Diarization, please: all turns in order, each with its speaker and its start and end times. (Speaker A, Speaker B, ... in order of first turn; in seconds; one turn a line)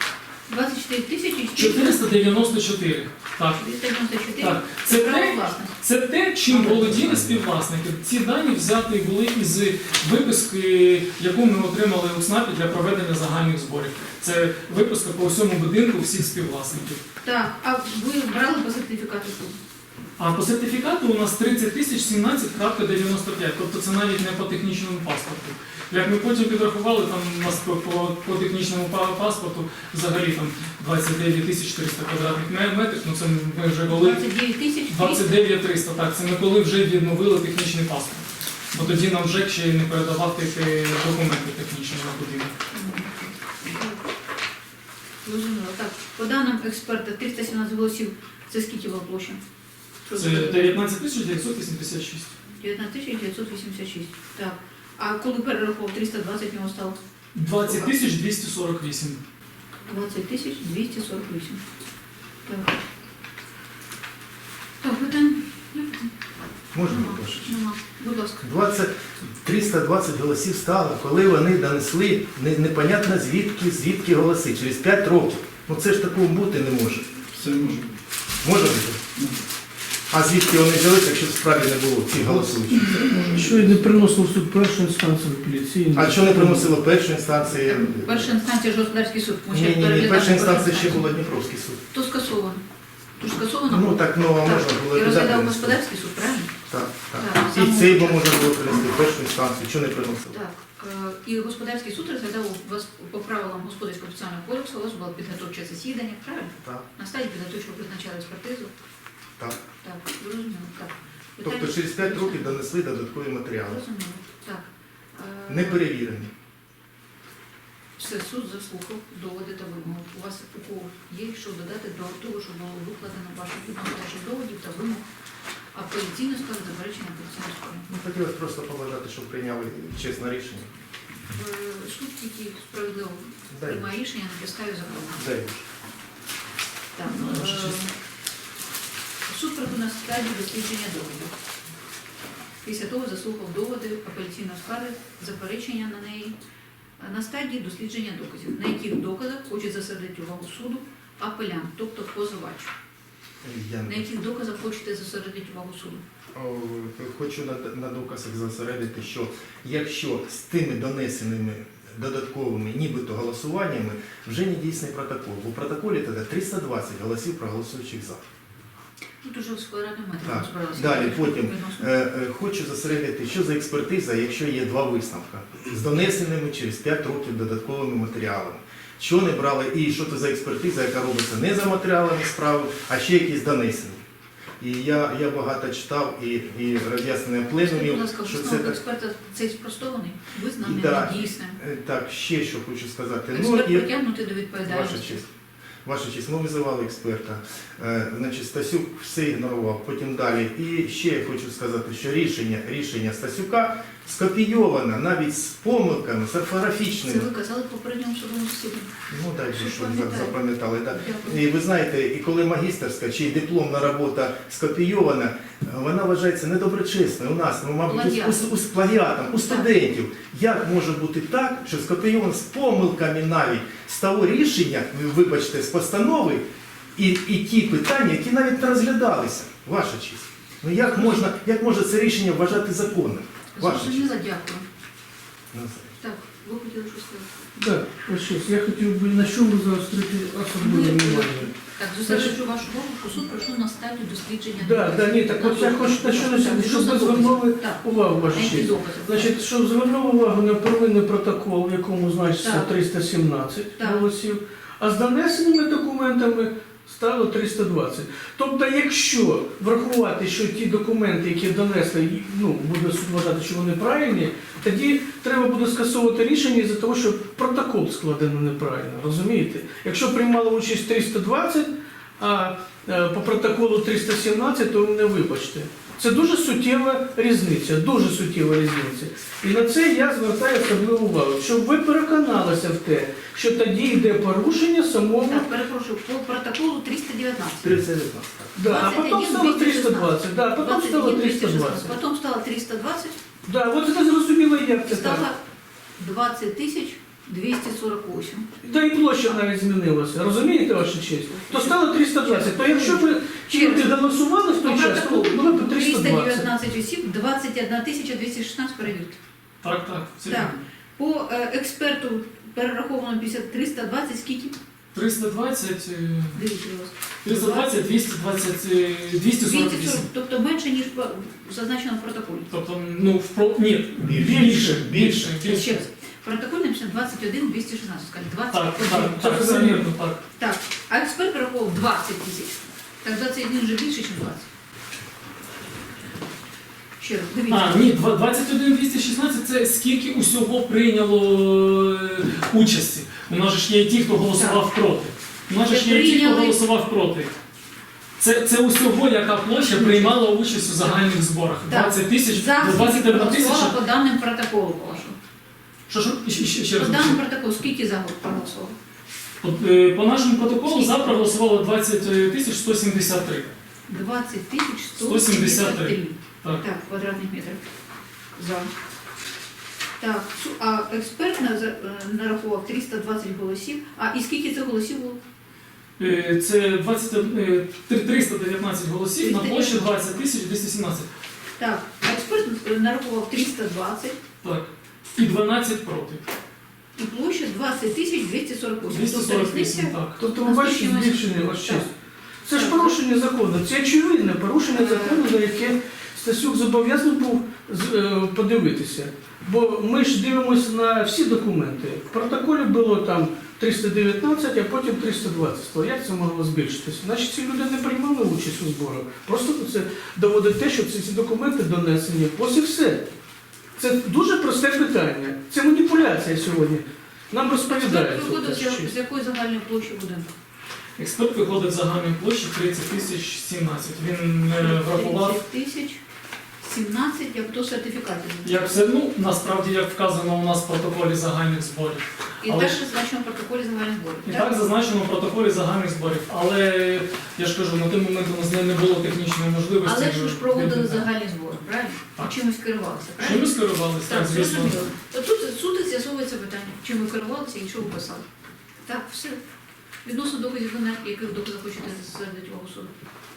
Speaker A: 0.5-2.0
Speaker B: 1.6-3.6
Speaker A: 3.5-5.7
Speaker B: 4.4-17.0
Speaker A: 6.5-7.0
Speaker A: 17.2-19.6
Speaker B: 20.2-34.2
Speaker A: 33.9-35.5
Speaker B: 34.9-42.5
Speaker A: 42.7-44.0
Speaker A: 45.2-49.4
Speaker A: 50.0-50.8
Speaker B: 50.1-52.3
Speaker A: 52.6-57.0
Speaker B: 57.3-59.2
Speaker A: 57.6-57.9
Speaker A: 59.8-61.6
Speaker A: 62.5-62.8
Speaker A: 64.8-66.1
Speaker C: 66.7-67.5
Speaker A: 66.8-68.4
Speaker C: 68.4-77.2
Speaker B: 77.3-77.9
Speaker C: 78.4-79.0
Speaker C: 80.1-83.3
Speaker D: 82.2-86.7
Speaker C: 85.9-88.3
Speaker A: 87.7-91.1
Speaker C: 89.5-91.8
Speaker A: 91.9-92.6
Speaker A: 93.2-96.5
Speaker C: 93.7-95.8
Speaker C: 96.7-100.3
Speaker A: 97.2-98.5
Speaker A: 100.3-108.7
Speaker A: 109.8-112.6
Speaker C: 111.4-113.8
Speaker A: 113.6-115.9
Speaker C: 115.5-116.3
Speaker A: 118.0-125.0
Speaker A: 125.7-127.9
Speaker C: 127.9-130.7
Speaker A: 131.3-135.2
Speaker C: 133.5-133.9
Speaker C: 135.2-135.6
Speaker A: 136.9-137.9
Speaker B: 137.1-137.8
Speaker A: 139.3-141.3
Speaker A: 142.6-146.3
Speaker A: 147.0-152.7
Speaker C: 153.4-154.0
Speaker A: 153.8-156.0
Speaker C: 156.3-168.2
Speaker A: 169.2-171.9
Speaker C: 170.2-184.0
Speaker C: 184.6-188.8
Speaker A: 187.6-191.6
Speaker C: 190.6-193.9
Speaker A: 193.3-195.2
Speaker C: 194.7-195.2
Speaker C: 195.8-207.2
Speaker A: 207.0-208.9
Speaker C: 209.1-226.4
Speaker A: 209.5-210.4
Speaker A: 210.9-211.4
Speaker A: 217.8-218.4
Speaker C: 226.9-234.1
Speaker A: 233.5-234.7
Speaker C: 235.5-235.9
Speaker A: 236.0-237.3
Speaker D: 237.6-241.5
Speaker A: 240.6-249.3
Speaker D: 242.1-242.4
Speaker D: 244.6-285.5
Speaker A: 252.4-252.7
Speaker A: 253.8-254.1
Speaker A: 285.2-287.8
Speaker C: 287.6-288.6
Speaker D: 288.5-292.0
Speaker A: 288.6-293.2
Speaker D: 293.4-295.3
Speaker A: 294.9-295.4
Speaker A: 296.0-298.5
Speaker D: 298.6-306.4
Speaker A: 301.4-304.0
Speaker A: 304.5-309.2
Speaker B: 309.6-310.6
Speaker A: 310.3-314.6
Speaker B: 314.9-316.4
Speaker A: 316.3-317.7
Speaker B: 317.2-320.0
Speaker A: 319.4-322.5
Speaker B: 322.5-325.8
Speaker C: 324.0-325.4
Speaker D: 324.2-325.0
Speaker A: 325.4-329.6
Speaker B: 328.5-330.2
Speaker D: 329.0-329.8
Speaker A: 330.4-334.5
Speaker A: 337.0-337.8
Speaker B: 337.5-347.3
Speaker A: 344.3-344.6
Speaker A: 345.6-346.6
Speaker B: 348.2-353.7
Speaker A: 349.6-350.2
Speaker A: 350.7-351.0
Speaker A: 351.7-355.1
Speaker B: 355.9-357.2
Speaker A: 356.8-358.8
Speaker B: 359.4-363.5
Speaker A: 360.6-361.1
Speaker A: 363.9-367.6
Speaker B: 365.0-366.6
Speaker A: 368.4-368.7
Speaker A: 370.0-375.2
Speaker B: 376.0-381.1
Speaker A: 379.2-379.9
Speaker A: 381.6-384.2
Speaker B: 384.4-386.2
Speaker A: 387.0-391.9
Speaker B: 388.9-390.2
Speaker D: 390.2-391.9
Speaker D: 392.4-413.1
Speaker A: 392.5-392.9
Speaker A: 394.7-395.2
Speaker D: 413.8-418.9
Speaker A: 417.7-420.3
Speaker B: 421.0-425.4
Speaker A: 424.6-426.0
Speaker A: 426.6-428.6
Speaker B: 428.4-432.8
Speaker A: 432.4-434.5
Speaker B: 434.2-441.1
Speaker A: 439.8-443.5
Speaker B: 443.2-444.8
Speaker A: 444.1-448.2
Speaker A: 448.9-449.4
Speaker A: 450.0-452.9